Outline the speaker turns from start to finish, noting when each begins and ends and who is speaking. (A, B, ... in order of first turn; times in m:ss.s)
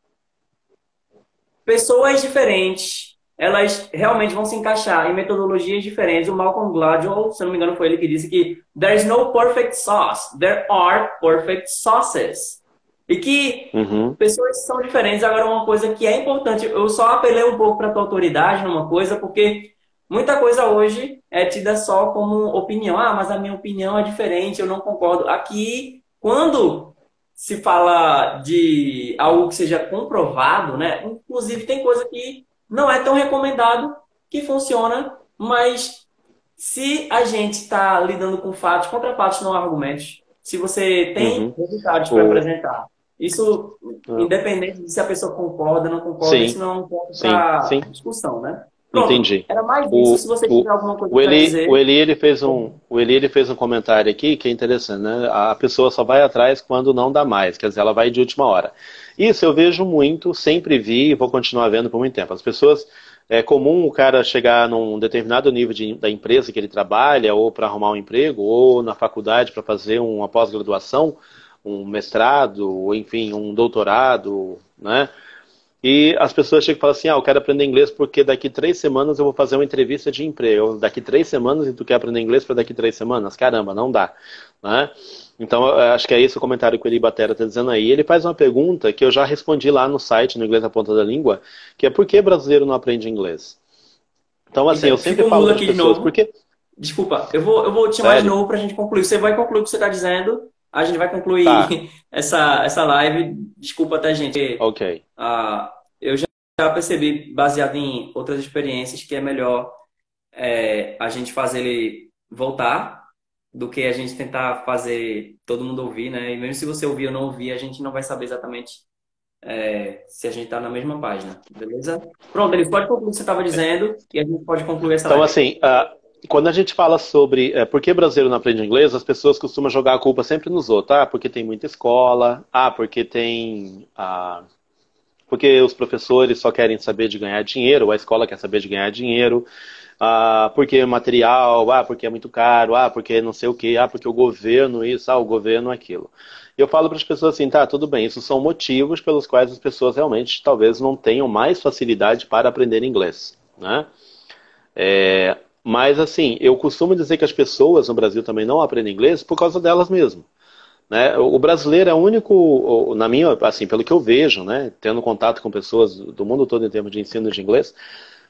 0:01.7-0:36.1 A
0:13.7-0:14.2 B
0:36.6-0:51.8 A
0:41.2-0:41.5 B
0:42.1-0:42.4 B
0:46.2-0:46.6 B
0:47.2-0:47.9 B
0:48.9-1:15.1 B
1:15.8-1:33.6 B
1:34.5-1:36.3 B
1:34.7-1:36.1 A
1:36.8-1:44.6 A
1:38.0-1:38.4 B
1:41.4-1:41.7 B
1:44.6-1:45.0 B
1:45.2-1:49.8 A
1:50.3-1:58.8 A
1:59.4-2:05.4 A
2:05.1-2:14.4 B
2:15.3-2:19.5 B
2:20.0-2:33.9 B
2:34.8-2:40.3 B
2:40.9-2:47.8 B